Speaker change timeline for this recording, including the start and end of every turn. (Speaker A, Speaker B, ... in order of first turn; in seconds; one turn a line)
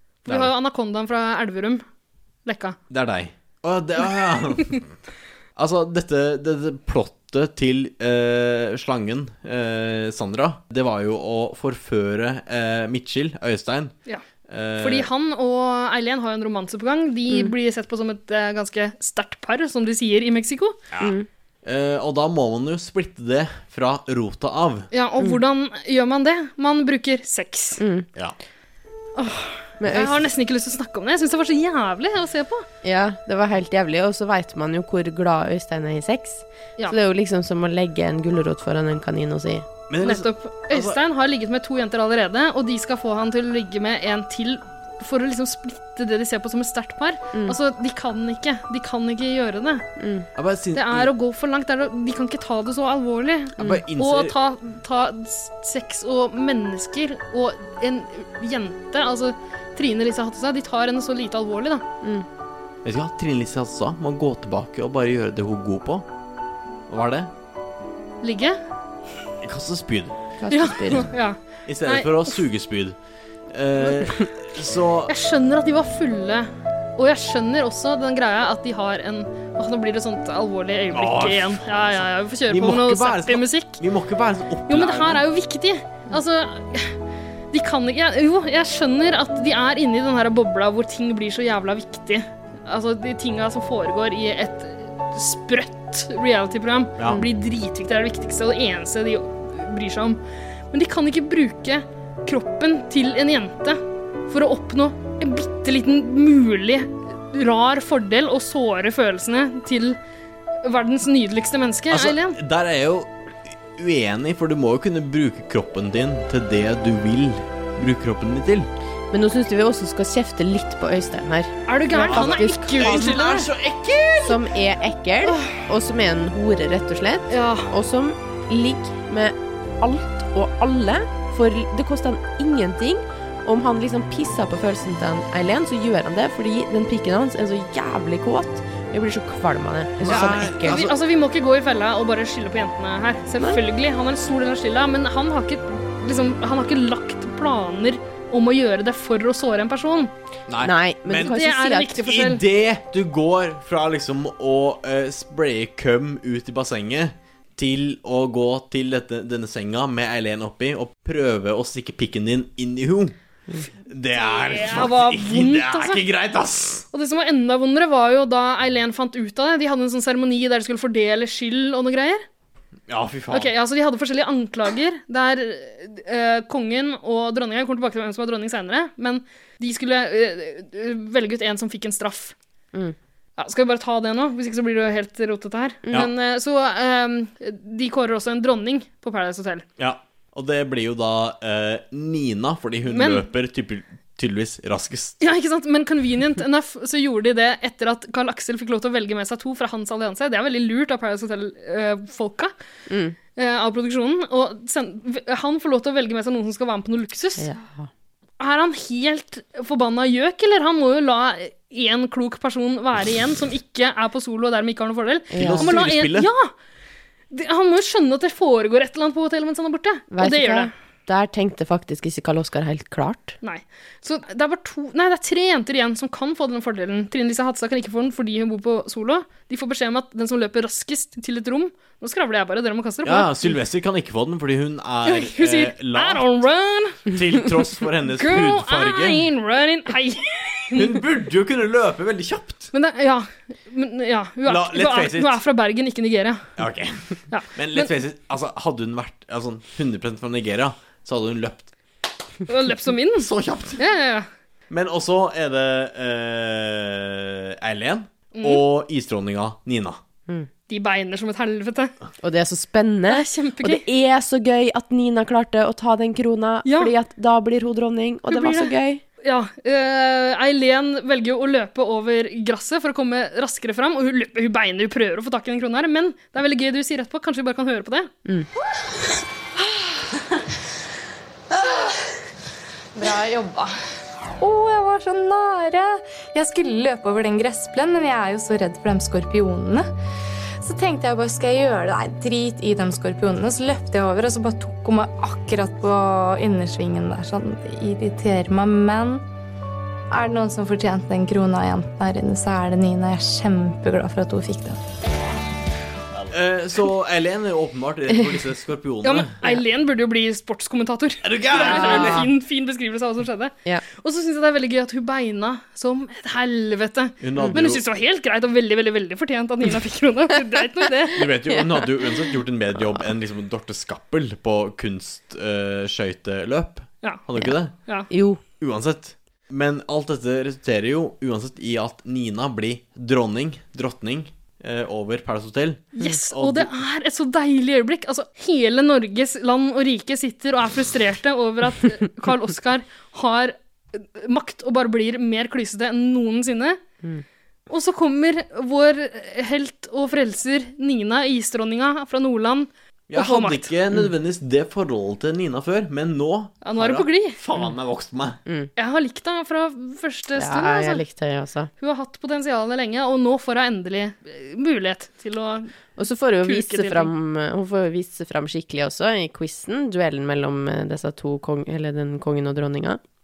Speaker A: 0.3-0.5
Speaker B: 0.3-1.8
Speaker B: 2.5-2.8
Speaker A: 2.9-4.8
Speaker A: 5.6-13.9
Speaker A: 14.5-15.1
Speaker B: 14.8-20.8
Speaker A: 20.9-24.9
Speaker C: 21.0-21.3
Speaker B: 24.9-27.8
Speaker C: 27.8-28.1
Speaker B: 29.2-32.7
Speaker C: 29.8-30.2
Speaker C: 32.8-39.7
Speaker A: 39.9-41.0
Speaker B: 40.0-49.9
Speaker C: 50.0-50.3
Speaker A: 50.4-51.1
Speaker B: 50.7-61.9
Speaker A: 53.6-54.4
Speaker A: 62.8-66.1
Speaker A: 66.9-67.3
Speaker B: 68.2-68.6
Speaker A: 69.4-70.2
Speaker C: 70.4-71.1
Speaker B: 70.5-72.4
Speaker A: 71.7-73.0
Speaker A: 73.5-75.1
Speaker B: 75.1-83.8
Speaker A: 80.9-85.2
Speaker B: 84.7-87.0
Speaker B: 87.5-100.2
Speaker B: 100.7-110.0
Speaker B: 110.6-112.4
Speaker A: 111.9-113.1
Speaker A: 113.7-118.7
Speaker C: 119.1-123.2
Speaker B: 121.7-123.5
Speaker A: 122.0-124.4
Speaker C: 124.2-140.8
Speaker B: 125.2-125.6
Speaker B: 127.3-127.7
Speaker A: 140.0-140.9
Speaker B: 140.7-150.1
Speaker A: 150.5-151.4
Speaker C: 150.6-152.0
Speaker B: 151.2-152.4
Speaker A: 152.0-163.2
Speaker A: 163.9-166.9
Speaker B: 164.2-166.0
Speaker B: 166.9-172.2
Speaker A: 172.9-173.5
Speaker B: 173.3-182.3
Speaker B: 183.4-189.7
Speaker A: 189.8-195.2
Speaker B: 192.9-193.3
Speaker B: 195.2-202.5
Speaker C: 202.9-203.2
Speaker B: 203.4-207.5
Speaker C: 207.4-207.9
Speaker B: 208.4-216.5
Speaker C: 215.3-215.7
Speaker A: 215.4-216.3
Speaker B: 217.3-220.7
Speaker C: 220.1-223.4
Speaker B: 223.4-233.5
Speaker A: 233.0-236.4
Speaker B: 235.1-237.0
Speaker A: 237.1-239.2
Speaker B: 238.2-241.0
Speaker A: 240.8-242.7
Speaker B: 242.7-246.5
Speaker A: 244.5-245.4
Speaker A: 246.6-251.7
Speaker B: 247.3-247.9
Speaker B: 252.5-254.3
Speaker A: 253.2-253.8
Speaker A: 254.7-260.0
Speaker B: 258.4-258.6
Speaker B: 260.7-261.9
Speaker C: 262.2-269.0
Speaker B: 263.1-263.9
Speaker B: 266.7-266.9
Speaker B: 268.3-278.1
Speaker D: 283.0-283.7
Speaker D: 284.4-289.9
Speaker D: 290.6-299.2
Speaker D: 300.1-304.8
Speaker A: 306.3-309.3
Speaker B: 309.0-321.3
Speaker A: 311.2-312.3
Speaker C: 311.6-312.3
Speaker A: 317.2-317.8
Speaker A: 321.1-327.7
Speaker C: 321.5-321.8
Speaker C: 328.1-328.4
Speaker A: 328.6-336.7
Speaker B: 336.0-346.8
Speaker B: 347.7-353.7
Speaker A: 353.1-358.4
Speaker B: 356.6-357.4
Speaker C: 358.5-358.7
Speaker B: 358.8-361.0
Speaker C: 360.4-361.7
Speaker B: 361.8-365.7
Speaker C: 366.0-373.0
Speaker B: 366.4-367.1